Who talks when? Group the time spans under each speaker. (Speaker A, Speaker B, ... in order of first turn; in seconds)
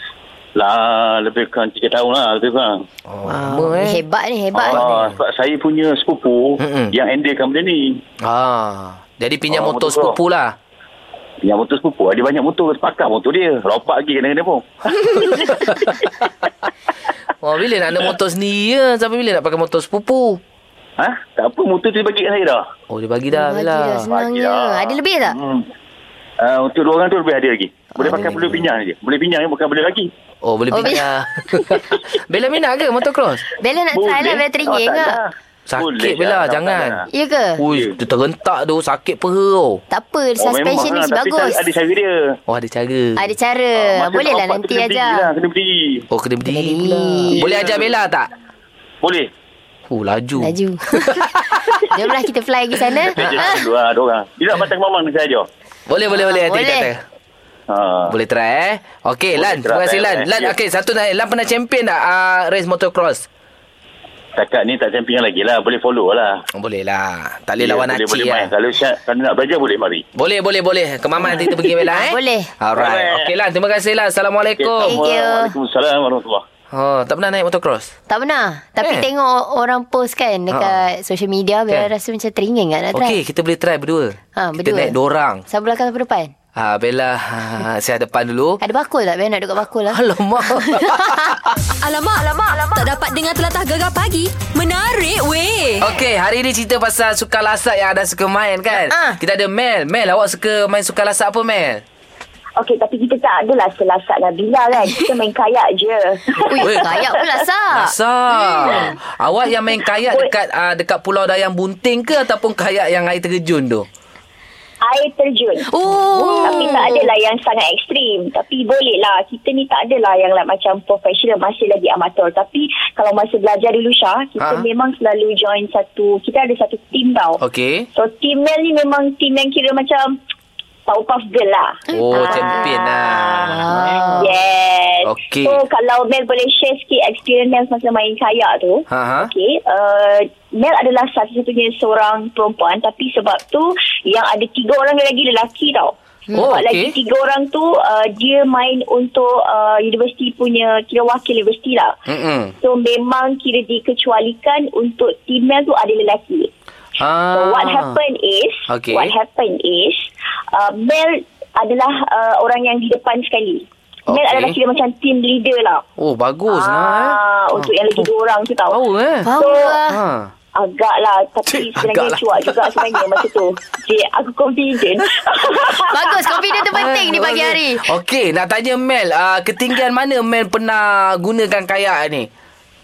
Speaker A: 0.6-2.8, 4.5-8.0, 9.5-10.2, 11.4-15.9, 21.0-22.6, 24.1-25.7, 26.4-30.1, 33.9-37.0, 40.4-42.3, 43.8-46.0, 47.4-48.0, 49.0-49.3, 53.1-55.5, 57.7-58.1, 59.4-60.5, 64.4-66.4, 67.6-70.0, 72.8-73.3, 74.6-76.4
Speaker B: 3.1-4.0, 4.7-5.2, 6.6-6.9, 8.2-10.6, 15.4-16.0, 17.4-20.4, 22.9-24.1, 28.1-28.6, 30.4-33.5, 35.7-37.0, 37.6-39.8, 42.5-43.3, 46.1-48.3, 49.9-51.8, 53.0-53.5, 55.9-57.0, 58.1-63.3, 66.5-68.5, 70.2-75.0, 76.7-77.9, 78.8-79.1, 80.5-80.8, 82.9-85.4, 86.6-88.6, 89.9-91.6, 95.8-101.8, 106.6-107.1, 107.7-113.9, 124.4-124.7, 127.4-127.9, 131.9-134.2, 135.1-135.6, 138.9-139.3, 146.3-146.9, 152.1-152.5, 157.0-158.0, 158.7-159.1, 164.1-164.6, 166.0-168.1, 168.7-169.3, 169.9-170.3, 171.5-173.2, 176.7-182.3
Speaker C: 3.3-4.9, 23.3-25.4, 28.0-28.5, 30.7-31.1, 31.6-31.9, 33.6-35.2, 37.1-37.6, 39.9-41.6, 43.2-45.3, 46.5-47.5, 50.4-51.3, 51.9-53.6, 56.1-56.9, 71.4-72.5, 74.8-75.5, 78.1-83.2, 84.4-85.0, 85.5-86.3, 88.6-91.3, 98.9-99.2, 106.4-107.9, 115.7-117.0, 131.9-132.7, 133.5-134.3, 169.2-170.0, 175.9-177.8
Speaker D: 91.8-95.9
Speaker E: 102.6-106.7, 110.0-110.3, 114.8-127.4, 128.0-130.1, 130.9-133.5, 134.2-151.9, 152.6-156.5, 157.3-165.8, 166.5-168.8, 169.4-169.8, 170.6-176.7